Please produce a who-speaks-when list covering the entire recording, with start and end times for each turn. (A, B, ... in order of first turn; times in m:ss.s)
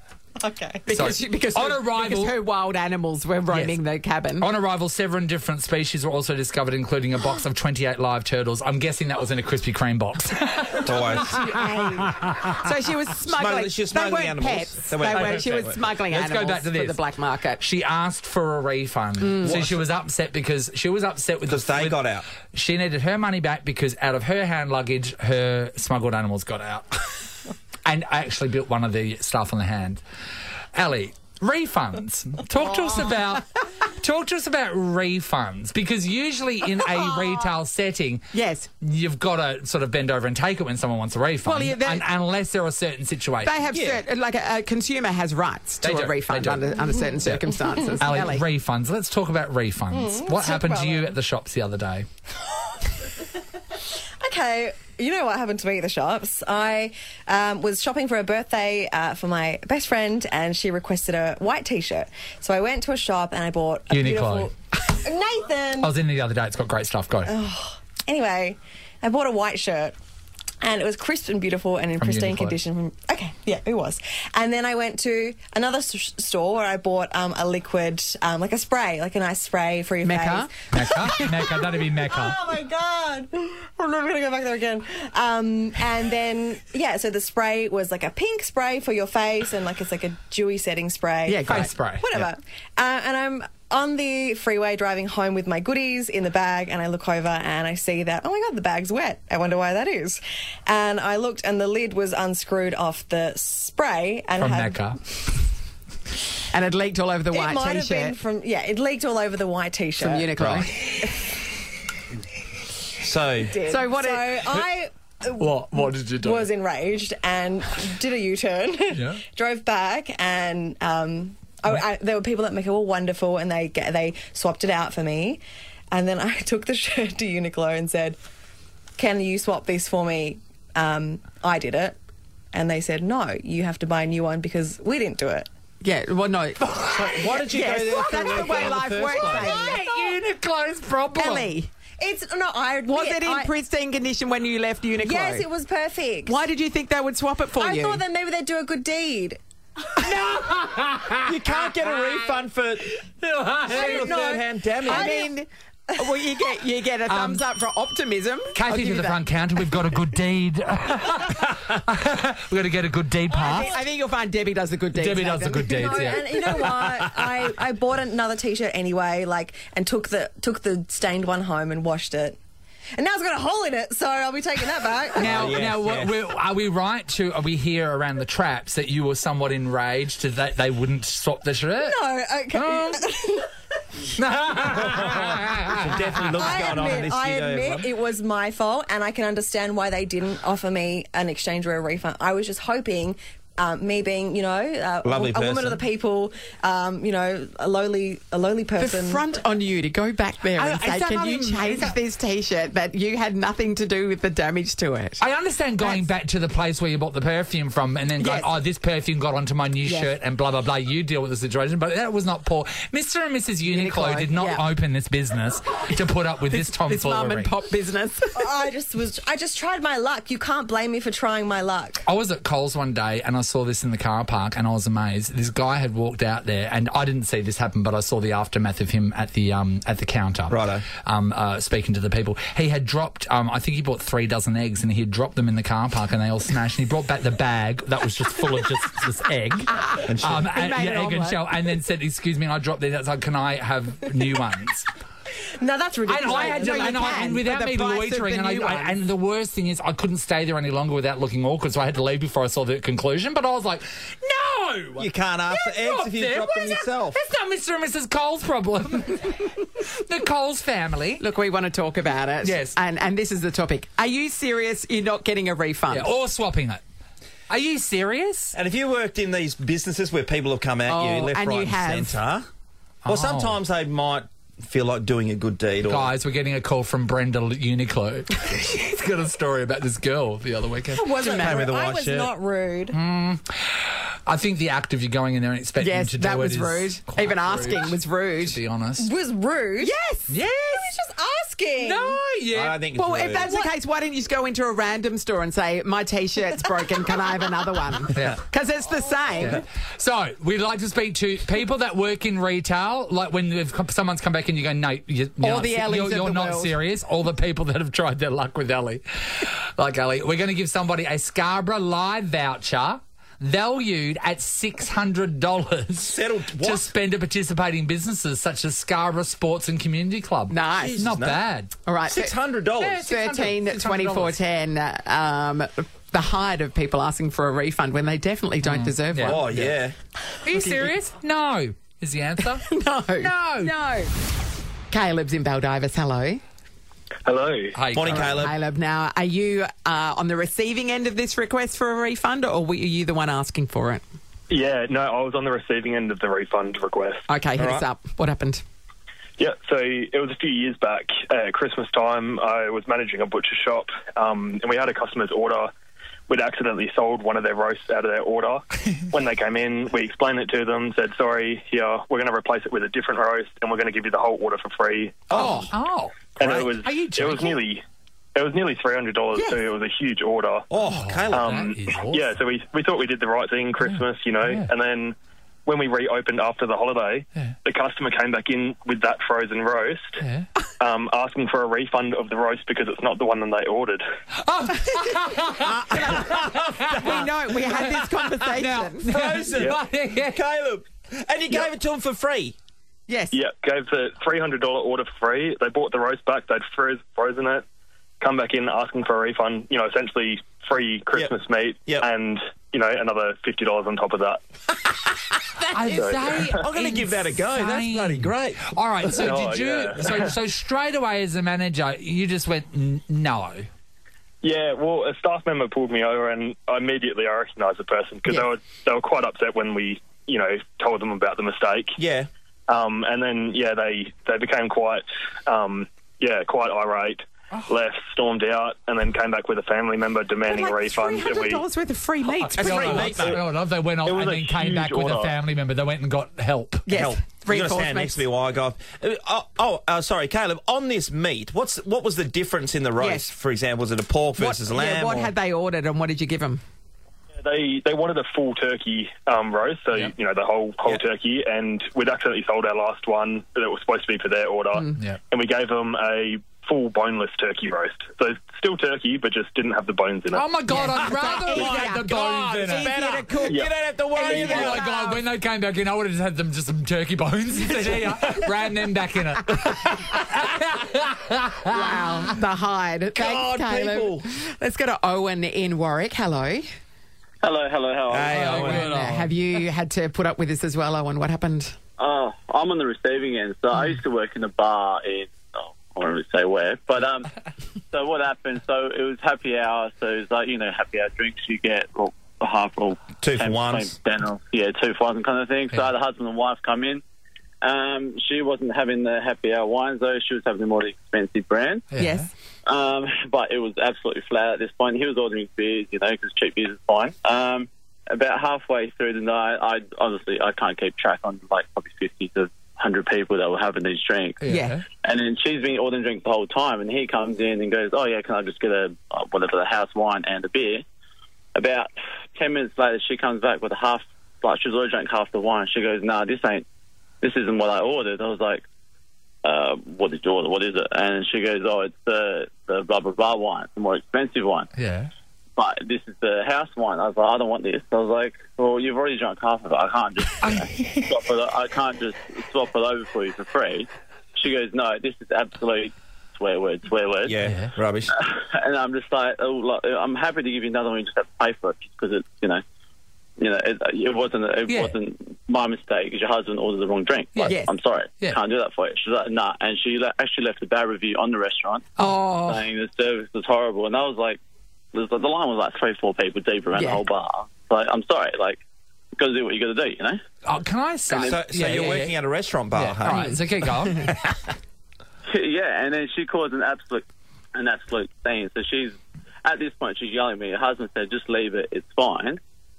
0:00.4-0:00.9 A
0:00.9-0:04.5 B
0:00.9-0:02.3 C
0:03.5-0:03.7 C
0:04.4-0:12.5 C
0:10.8-0:11.4 D
0:11.1-0:17.6 B
0:13.3-0:15.8 D
0:15.1-0:17.0 C
0:17.6-0:22.0 C
0:19.2-0:19.6 B
0:19.4-0:19.8 D
0:21.5-0:22.2 D
0:22.5-0:27.1 C
0:27.8-0:30.0 C
0:30.7-0:38.2 C
0:38.3-0:38.7 B
0:38.8-0:43.5 C
0:41.4-0:42.1 B
0:43.4-0:48.5 B
0:43.7-0:44.0 D
0:45.8-0:46.6 C
0:48.0-0:52.1 C
0:49.9-0:51.1 A
0:54.2-1:05.9 A
1:03.9-1:04.5 C
1:05.8-1:07.3 C
1:07.2-1:09.9 A
1:10.6-1:45.4 A
1:12.0-1:12.6 C
1:20.0-1:20.5 B
1:20.7-1:22.4 C
1:31.2-1:31.7 B
1:31.4-1:32.3 C
1:44.4-1:45.0 C
1:46.5-1:48.2 B
1:47.3-1:51.3 A
1:50.0-1:50.7 B
1:50.4-1:50.7 D
1:53.0-1:53.5 D
1:53.4-2:05.4 A
1:53.6-1:54.6 B
1:55.4-1:56.5 C
1:58.9-1:59.2 C
2:05.9-2:08.2 A
2:09.0-2:12.0 A
2:12.5-2:15.5 A
2:15.8-2:19.8 B
2:16.6-2:17.1 C
2:16.9-2:19.5 D
2:19.2-2:20.2 A
2:19.5-2:21.5 C
2:21.2-2:21.7 B
2:22.0-2:23.5 A
2:22.9-2:25.4 B
2:25.0-2:26.4 A
2:26.2-2:28.0 B
2:27.6-2:29.4 A
2:30.0-2:31.4 C
2:31.3-2:33.0 D
2:31.5-2:32.4 A
2:33.2-2:34.4 C
2:33.6-2:35.3 A
2:33.7-2:35.1 D
2:34.8-2:39.2 B
2:37.1-2:37.4 C
2:38.5-2:43.7 C
2:43.4-2:46.2 B
2:44.9-2:46.6 C
2:45.7-2:52.4 A
2:53.0-2:55.6 A
2:55.2-2:56.1 D
2:55.2-3:03.0 C
3:01.8-3:03.5 A
3:04.2-3:06.9 C
3:04.8-3:07.9 D
3:06.4-3:19.2 A
3:15.0-3:15.8 D
3:18.8-3:25.2 B
3:20.6-3:21.9 C
3:25.2-3:37.5 C
3:25.8-3:26.0 B
3:28.2-3:28.6 B
3:29.8-3:30.1 B
3:33.7-3:34.6 B
3:36.5-3:38.4 B
3:38.3-3:42.0 A
3:42.0-4:04.9 C
3:50.5-3:50.8 D
3:59.7-4:01.5 B
4:00.1-4:00.5 D
4:05.6-4:07.3 A
4:06.1-4:21.2 C
4:06.3-4:09.0 B
4:15.0-4:17.2 D
4:21.2-4:26.1 B
4:22.4-4:22.7 C
4:25.9-4:26.8 C
4:27.5-4:28.5 C
4:28.5-4:32.5 D
4:30.9-4:32.2 B
4:33.0-4:33.6 C
4:33.1-4:36.1 D
4:35.8-4:41.1 C
4:40.9-4:43.0 A
4:41.2-4:41.7 B
4:41.4-4:42.3 D
4:42.9-4:49.1 C
4:45.8-4:48.6 B
4:49.0-4:49.9 A
4:49.8-4:50.3 B
4:50.3-4:50.9 C
4:50.6-4:52.2 A
4:51.8-4:52.8 C
4:52.5-4:53.5 D
4:52.9-4:59.6 B
4:53.4-4:53.7 A
4:58.1-4:58.4 C
4:59.4-5:21.7 C
5:05.4-5:06.8 B
5:16.0-5:16.9 D
5:20.5-5:21.0 B
5:20.8-5:21.4 D
5:21.8-5:22.4 B
5:22.1-5:23.0 D
5:22.8-5:24.4 C
5:23.0-5:29.5 B
5:28.6-5:29.8 C
5:29.3-5:29.9 D
5:30.4-5:32.7 C
5:32.7-5:34.1 B
5:33.2-5:33.7 C
5:34.9-5:36.4 B
5:37.2-5:37.8 E
5:37.8-5:38.5 C
5:37.9-5:38.5 D
5:38.1-5:44.0 B
5:44.5-5:47.2 E
5:47.3-5:48.6 B
5:47.6-5:47.8 D
5:49.4-5:55.7 E
5:56.3-6:05.4 E
6:05.3-6:05.7 D
6:05.3-6:05.7 B
6:05.4-6:07.6 C
6:06.4-6:07.8 E
6:06.4-6:06.7 D
6:08.3-6:10.7 E
6:10.7-6:11.4 D
6:10.8-6:12.2 C
6:11.3-6:15.1 E
6:13.8-6:14.7 C
6:15.6-6:20.2 E
6:20.8-6:24.0 E
6:24.4-6:27.0 C
6:25.9-6:29.1 B
6:25.9-6:27.4 D
6:27.8-6:28.1 C
6:28.6-6:30.4 C
6:29.0-6:29.8 D
6:30.3-6:32.6 D
6:33.1-6:33.4 B
6:33.3-6:37.6 E
6:38.2-6:44.4 E
6:45.7-6:53.7 C
6:45.9-6:46.4 E
6:46.6-6:49.1 D
6:49.2-6:50.3 E
6:54.4-7:02.0 E
7:02.0-7:02.3 D
7:02.7-7:11.6 E
7:10.5-7:13.3 B
7:12.3-7:16.9 C
7:12.7-7:13.4 E
7:12.8-7:13.4 D
7:14.0-7:15.3 E
7:16.8-7:18.2 B
7:16.9-7:25.3 D
7:23.0-7:23.3 B
7:24.4-7:26.6 B
7:27.4-7:40.4 E
7:40.3-7:42.9 C
7:40.7-7:45.2 B
7:41.4-7:44.8 D
7:43.4-7:43.7 E
7:44.2-7:52.3 C
7:51.7-7:56.7 B
7:53.1-7:54.2 D
7:57.4-7:58.6 F
7:58.1-7:58.9 D
7:58.3-7:59.3 C
7:58.5-8:01.8 B
8:02.0-8:07.3 F
8:07.9-8:17.0 F
8:13.2-8:13.9 D
8:17.6-8:21.8 F
8:21.9-8:22.3 C
8:22.0-8:22.3 B
8:22.6-8:34.4 F
8:34.4-8:34.8 C
8:34.5-8:34.8 B
8:35.0-8:40.8 F
8:41.5-8:46.6 F
8:47.2-8:48.6 F
8:49.4-8:54.7 F
8:54.7-8:55.1 C
8:55.6-9:07.4 F
9:00.4-9:01.1 C
9:07.2-9:08.1 D
9:07.4-9:07.7 C
9:08.2-9:12.6 F
9:13.4-9:24.4 F
9:14.7-9:15.0 C
9:17.4-9:17.7 B
9:22.0-9:22.7 B
9:24.9-9:28.6 F
9:26.7-9:27.0 B
9:29.1-9:30.2 F
9:30.4-9:32.1 C
9:31.1-9:31.9 F
9:31.2-9:33.4 D
9:32.8-9:34.2 C
9:33.0-9:33.3 B
9:35.3-9:42.4 F